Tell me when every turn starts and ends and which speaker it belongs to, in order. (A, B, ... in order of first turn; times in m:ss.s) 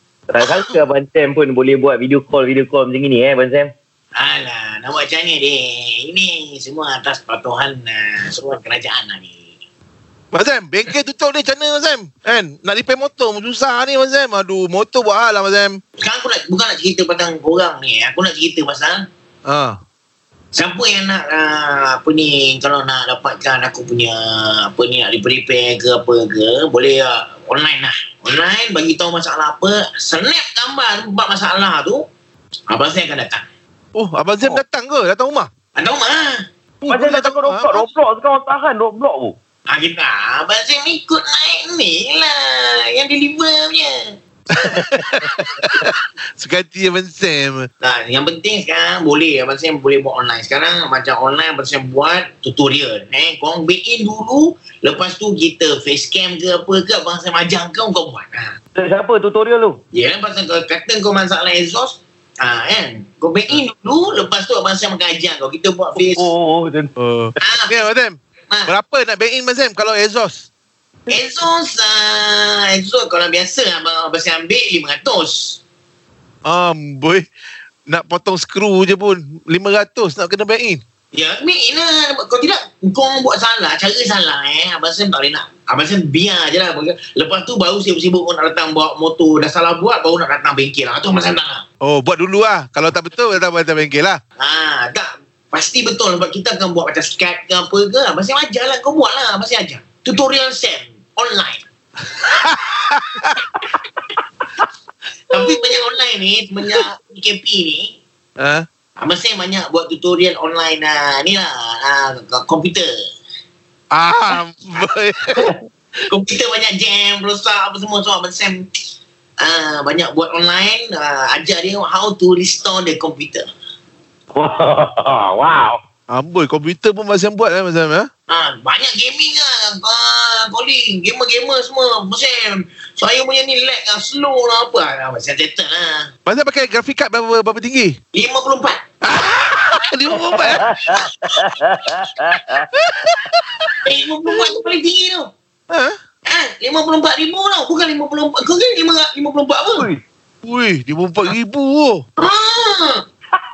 0:00.3-0:03.7 A
0:00.4-0:00.8 B
0:04.1-0:09.5 B
0:10.3-0:15.8 C
0:16.0-0:19.0 B
0:19.5-0:19.8 C
0:20.5-0:32.0 B
0:32.7-0:33.4 B
0:33.9-0:35.5 C
0:35.7-0:36.4 B
0:36.8-0:37.9 C
0:36.9-0:39.4 A
0:39.7-0:44.1 B
0:44.6-0:47.7 C
0:47.8-0:58.5 B
0:58.7-0:59.8 A
0:59.9-1:06.3 B
1:06.0-1:06.9 A
1:07.0-1:10.5 C
1:07.4-1:07.9 B
1:11.1-1:15.6 B
1:16.4-1:17.2 C
1:17.9-1:20.8 C
1:21.1-1:31.6 B
1:31.8-1:34.2 C
1:34.4-1:41.6 B
1:42.4-1:43.4 C
1:45.3-1:48.0 B
1:45.3-1:45.8 C
1:48.4-1:48.6 C
1:49.0-1:52.9 B
1:53.9-1:55.5 C
1:56.1-1:58.7 B
1:59.4-2:03.5 B
2:04.3-2:05.8 A
2:06.1-2:08.1 C
2:08.3-2:16.1 B
2:16.2-2:18.0 C
2:18.1-2:18.8 B
2:19.0-2:21.0 C
2:20.8-2:22.7 A
2:22.7-2:23.7 C
2:23.8-2:25.3 B
2:25.7-2:26.0 C
2:26.3-2:29.9 B
2:30.4-2:32.0 C
2:32.2-2:33.0 B